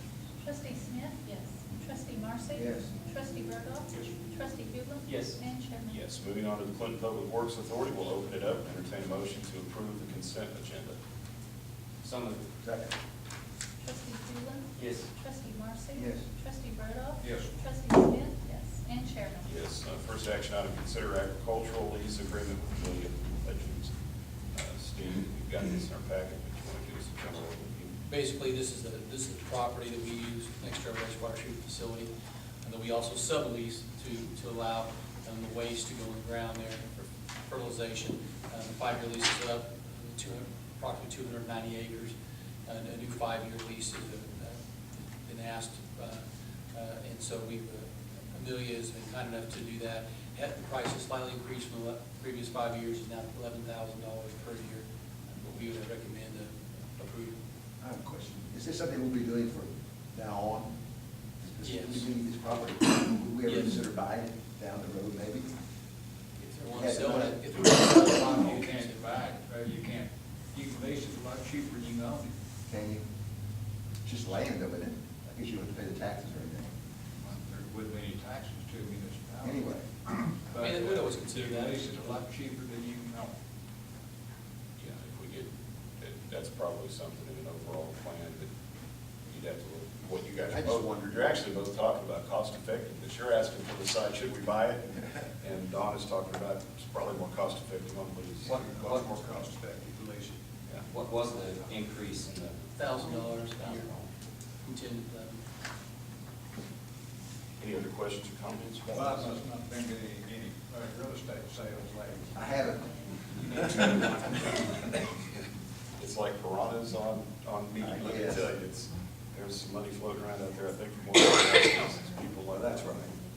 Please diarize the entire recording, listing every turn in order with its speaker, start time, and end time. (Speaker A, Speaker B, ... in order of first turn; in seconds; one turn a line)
Speaker A: 0.4-6.0
Speaker B: 2.5-2.9
Speaker C: 5.0-5.4
Speaker D: 5.9-10.9
Speaker C: 12.0-12.4
Speaker B: 12.6-12.9
Speaker A: 13.8-19.5
Speaker C: 14.8-15.1
Speaker B: 15.9-16.2
Speaker E: 17.2-17.6
Speaker D: 19.4-23.9
Speaker D: 24.5-27.9
Speaker F: 28.1-32.1
Speaker F: 32.6-42.1
Speaker F: 42.7-57.4
Speaker B: 57.8-60.7
Speaker B: 61.4-65.5
Speaker F: 61.6-62.1
Speaker F: 63.5-63.8
Speaker F: 66.4-69.0
Speaker B: 66.7-67.5
Speaker E: 68.0-72.3
Speaker B: 72.7-73.1
Speaker B: 74.0-76.7
Speaker E: 77.2-79.7
Speaker B: 79.4-79.8
Speaker E: 80.3-83.3
Speaker F: 80.5-82.1
Speaker D: 84.8-85.5
Speaker D: 86.0-88.5
Speaker D: 89.2-98.5
Speaker B: 90.5-91.3
Speaker E: 98.4-100.4
Speaker C: 98.5-99.1
Speaker D: 100.7-100.9
Speaker C: 100.9-102.5
Speaker F: 102.8-103.9
Speaker C: 103.2-103.9
Speaker F: 104.6-105.4
Speaker D: 107.6-109.4
Speaker E: 108.9-112.4
Speaker B: 112.3-112.9
Speaker E: 113.3-114.5
Speaker D: 116.0-123.1
Speaker B: 117.8-118.5